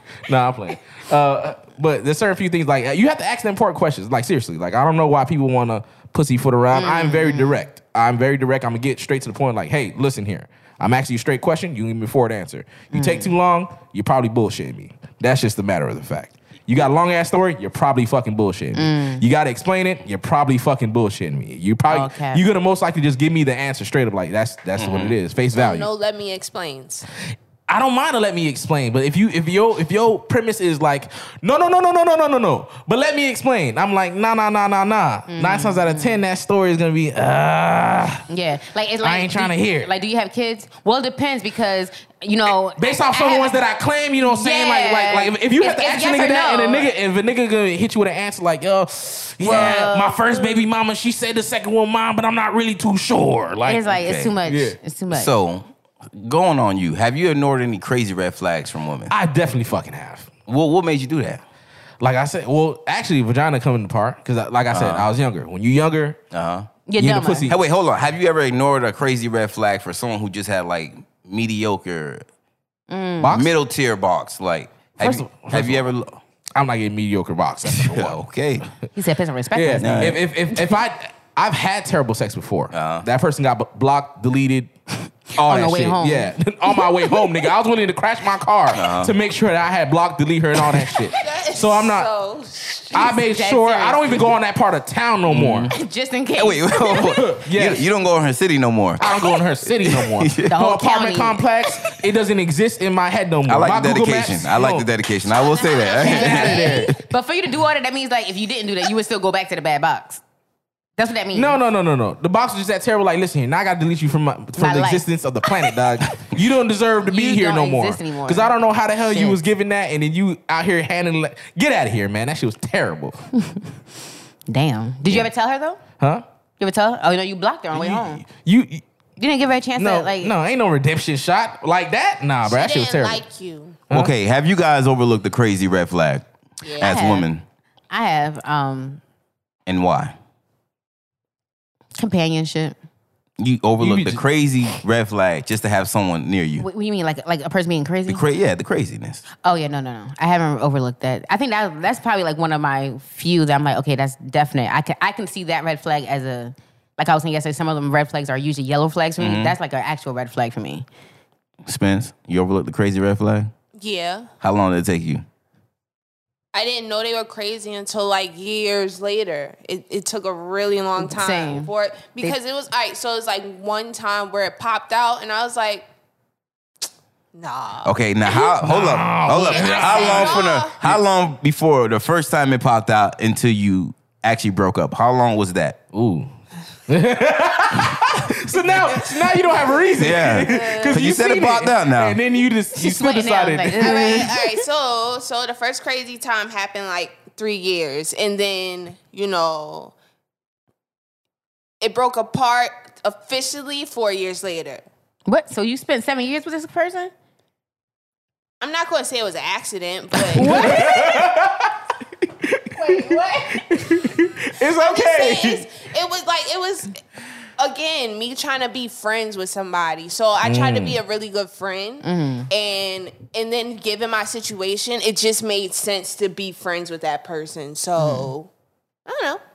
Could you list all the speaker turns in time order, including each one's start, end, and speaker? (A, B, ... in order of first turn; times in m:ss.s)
0:00.3-0:25.9 A
0:06.7-0:07.6 B
0:12.9-0:13.3 B
0:18.8-0:19.2 B
0:21.9-0:22.4 B
0:24.8-0:25.2 C
0:25.6-0:27.0 D
0:27.7-0:38.2 A
0:35.3-0:36.2 B
0:38.3-0:43.6 B
0:39.0-0:39.9 A
0:42.8-0:54.8 A
0:44.2-0:46.9 B
0:49.4-0:50.6 B
0:53.6-0:55.3 B
0:53.9-0:54.4 C
0:55.1-0:59.1 C
0:59.1-1:00.3 A
1:00.5-1:01.4 C
1:02.0-1:06.2 A
1:04.7-1:05.1 C
1:06.3-1:06.7 C
1:06.9-1:07.5 B
1:07.0-1:07.6 A
1:07.5-1:12.2 C
1:12.9-1:13.4 B
1:13.2-1:13.5 A
1:13.3-1:16.2 C
1:15.0-1:15.9 A
1:16.6-1:18.2 A
1:17.6-1:18.7 C
1:19.0-1:20.1 B
1:19.5-1:24.7 A
1:19.8-1:20.2 C
1:22.7-1:23.1 C
1:25.4-1:27.3 B
1:25.4-1:32.1 A
1:28.7-1:29.1 C
1:31.1-1:33.0 D
1:32.9-1:35.7 A
1:32.9-1:34.3 B
1:35.3-1:35.8 C
1:35.7-1:37.2 B
1:36.4-1:39.2 C
1:37.1-1:37.9 A
1:39.0-1:44.9 A
1:39.8-1:40.6 C
1:40.5-1:41.4 B
1:43.5-1:47.0 C
1:45.4-1:50.2 B
1:46.0-1:47.0 A
1:51.0-1:51.6 B
1:51.3-2:03.2 A
1:54.6-1:55.0 B
1:57.0-1:59.4 B
2:04.5-2:05.8 B
2:06.6-2:08.2 B
2:07.7-2:08.8 A
2:09.2-2:10.3 B
2:09.8-2:13.2 A
2:12.5-2:13.8 D
2:13.9-2:16.3 C
2:16.6-2:17.0 D
2:16.8-2:17.4 C
2:16.8-2:17.3 B
2:17.9-2:19.0 B
2:19.7-2:20.2 C
2:22.0-2:22.8 B
2:23.4-2:26.7 C
2:23.8-2:24.2 A
2:26.6-2:28.3 B
2:28.1-2:29.2 C
2:29.4-2:40.9 B
2:39.2-2:39.6 C
2:41.7-2:43.5 C
2:43.8-2:44.3 D
2:44.4-2:45.2 C
2:46.5-2:55.9 D
2:51.0-2:52.4 B
2:57.4-2:58.5 D
2:57.8-3:05.8 C
2:58.6-3:00.4 A
2:59.3-3:01.0 D
3:05.9-3:06.3 A
3:06.9-3:14.4 A
3:10.0-3:12.2 C
3:10.4-3:11.0 D
3:12.8-3:14.3 B
3:13.8-3:19.9 D
3:21.8-3:24.8 D
3:25.3-3:27.1 B
3:28.6-3:31.0 D
3:30.3-3:31.2 B
3:30.4-3:35.7 A
3:32.8-3:33.7 D
3:34.6-3:37.0 D
3:37.6-3:48.5 D
3:40.4-3:41.0 A
3:42.0-3:42.5 B
3:49.1-3:49.4 D